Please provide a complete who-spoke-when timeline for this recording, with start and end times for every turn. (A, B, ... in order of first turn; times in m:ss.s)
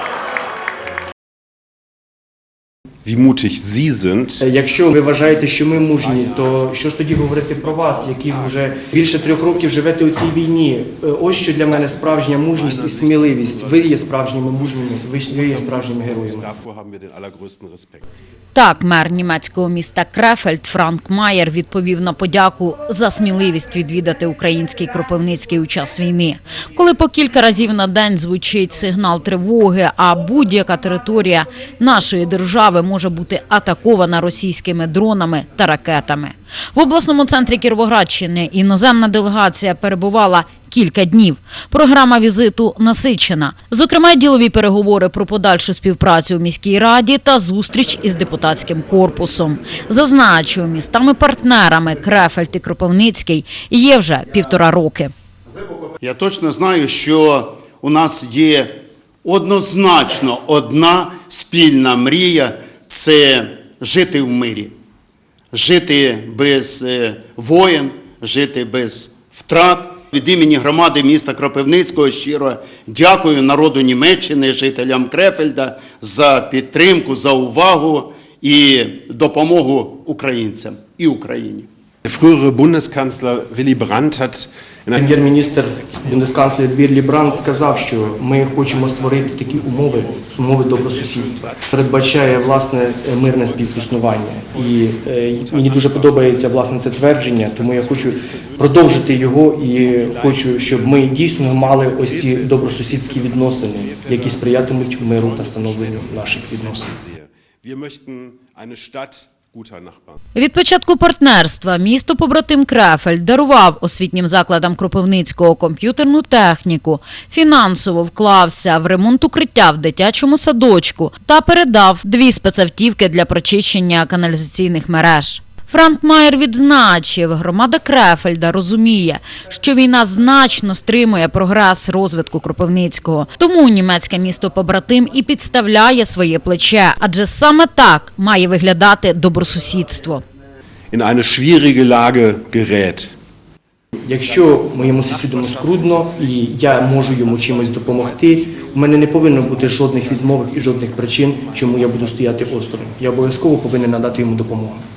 0:03.0-0:04.4 A
0:04.4-0:16.5 B
0:05.1-0:09.7 A
0:11.5-0:18.0 A
0:18.5-0:55.1 C
0:56.0-1:04.7 D
1:05.5-1:21.7 D
1:22.0-1:50.2 A
1:25.0-1:46.9 B
1:50.3-2:20.2 C
2:20.9-2:23.1 A
2:24.0-2:34.8 B
2:25.0-2:26.5 A
2:27.2-2:30.5 A
2:31.4-2:32.8 A